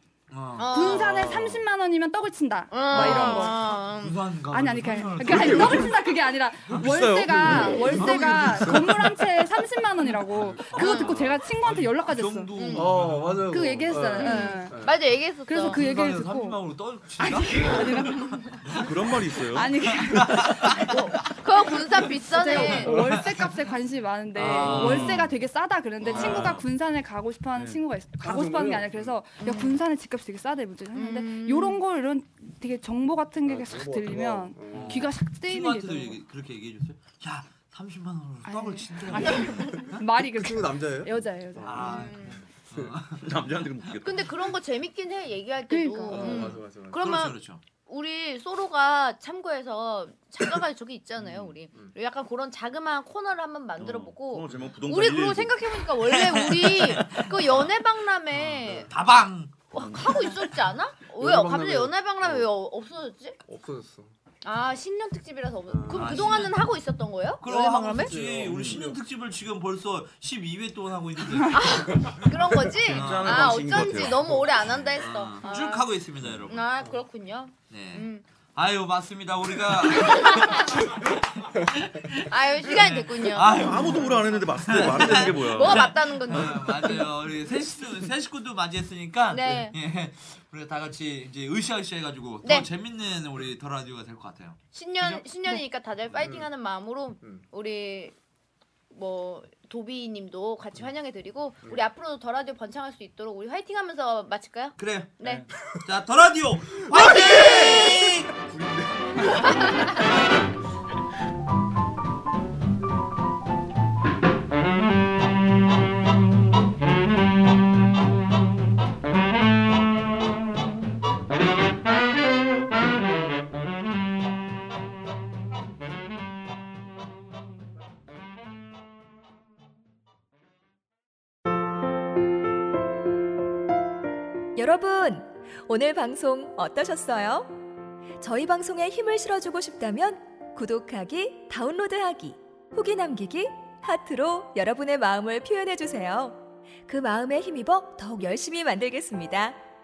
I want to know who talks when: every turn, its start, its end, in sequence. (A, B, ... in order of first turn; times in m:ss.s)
0:00.3-0:00.9 A
0:00.6-0:01.4 B
0:00.7-0:03.7 C
0:00.9-0:01.6 D
0:02.7-0:04.2 B
0:02.9-0:06.0 A
0:04.5-0:12.6 C
0:05.2-0:05.9 E
0:05.4-0:05.7 D
0:06.7-0:08.1 E
0:07.4-0:09.2 D
0:07.9-0:08.9 A
0:10.3-0:11.2 D
0:10.5-0:13.6 A
0:10.8-0:11.2 B
0:12.6-0:12.9 B
0:12.7-0:15.0 D
0:13.5-0:14.8 C
0:14.2-0:16.0 B
0:14.2-0:14.6 A
0:15.5-0:16.6 C
0:15.6-0:18.9 A
0:17.2-0:18.8 C
0:18.7-0:19.8 E
0:19.5-0:21.3 C
0:19.6-0:21.1 A
0:21.2-0:23.0 B
0:22.2-0:36.2 C
0:22.5-0:23.6 A
0:22.8-0:23.2 D
0:24.4-0:25.3 A
0:24.5-0:25.2 E
0:24.6-0:25.0 D
0:26.1-0:26.6 A
0:26.1-0:26.7 E
0:27.6-0:27.8 E
0:28.2-0:29.2 D
0:29.4-0:29.8 B
0:30.9-0:31.8 B
0:33.4-0:35.1 D
0:34.7-0:40.0 A
0:38.5-0:41.8 C
0:40.2-0:42.9 D
0:41.6-0:43.2 A
0:41.8-0:42.4 B
0:43.2-0:44.3 E
0:44.0-0:58.9 B
0:45.7-0:46.5 C
0:46.1-0:47.1 D
0:46.1-0:47.6 A
0:51.7-0:51.9 D
0:53.8-0:55.6 E
0:56.0-0:57.7 A
0:58.3-0:59.6 A
0:59.7-1:03.4 B
0:59.8-1:00.1 E
1:00.1-1:00.5 A
1:01.2-1:02.5 D
1:03.5-1:04.1 D
1:04.4-1:08.2 B
1:05.7-1:06.5 D
1:05.9-1:06.6 A
1:07.4-1:12.1 A
1:08.0-1:09.0 D
1:08.5-1:08.8 E
1:11.5-1:16.0 B
1:12.0-1:12.6 D
1:12.9-1:13.6 A
1:12.9-1:14.8 E
1:15.0-1:16.7 A
1:16.5-1:18.2 B
1:17.7-1:35.2 A
1:20.0-1:20.7 B
1:22.2-1:24.0 B
1:23.5-1:26.0 E
1:25.1-1:27.1 B
1:29.3-1:29.8 B
1:34.7-1:38.1 B
1:36.1-1:36.5 D
1:38.9-1:45.5 B
1:44.8-1:45.2 A
1:45.8-1:48.3 A
1:46.9-1:50.0 D
1:47.0-1:47.9 B
1:49.5-1:49.9 B
2:14.6-2:17.5 F
2:18.2-2:29.6 F